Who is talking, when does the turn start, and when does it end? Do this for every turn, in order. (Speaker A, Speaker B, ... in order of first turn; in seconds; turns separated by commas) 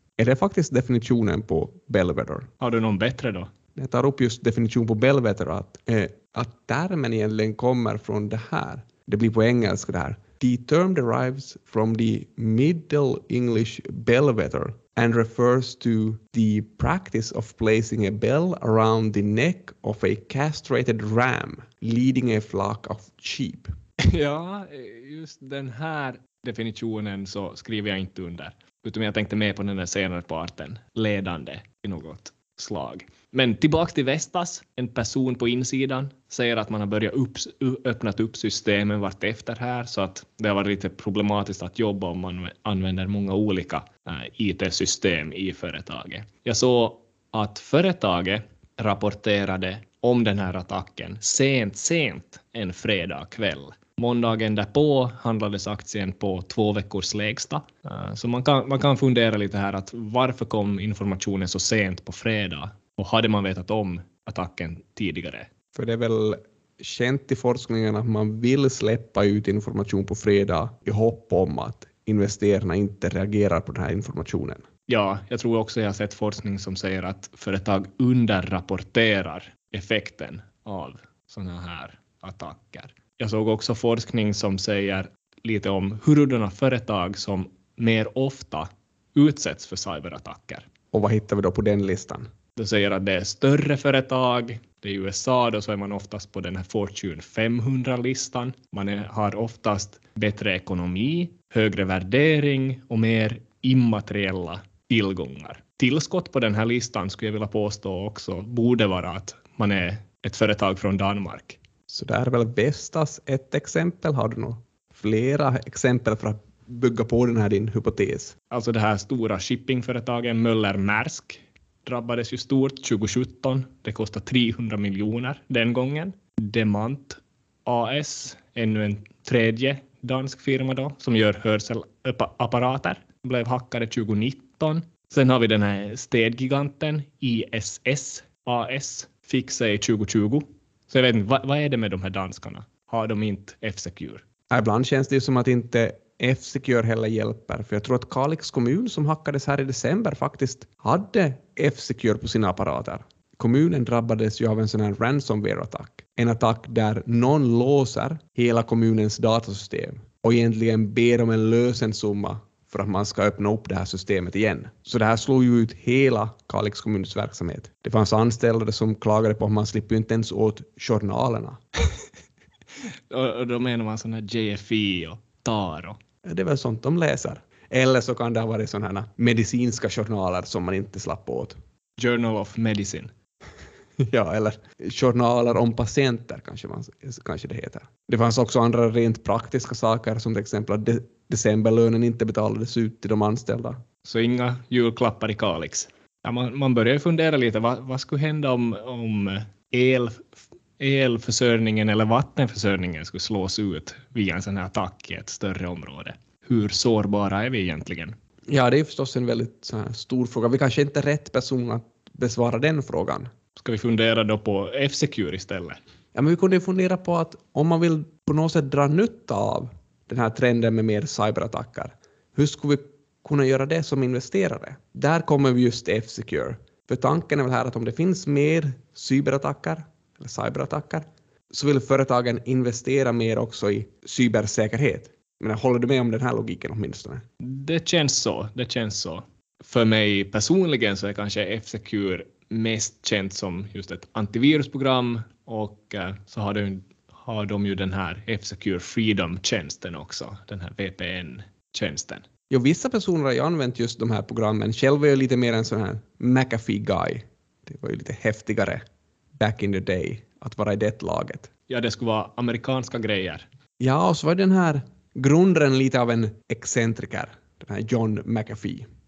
Speaker A: 0.2-2.5, Speaker B: 2.6-3.5, Speaker A: 3.7-23.7, Speaker B: 24.1-65.5, Speaker A: 65.7-74.6, Speaker B: 74.9-90.7, Speaker A: 90.9-92.3, Speaker B: 92.5-111.6, Speaker A: 111.9-118.3, Speaker B: 118.5-144.2, Speaker A: 144.5-171.6, Speaker B: 173.1-176.0, Speaker A: 176.2-181.6, Speaker B: 182.0-183.1, Speaker A: 184.1-193.8, Speaker B: 194.0-208.1, Speaker A: 208.5-213.3, Speaker B: 213.5-215.8, Speaker A: 216.1-237.2, Speaker B: 237.4-252.2, Speaker A: 252.5-258.8, Speaker A: 259.4-261.5, Speaker B: 261.7-263.4, Speaker A: 263.8-268.8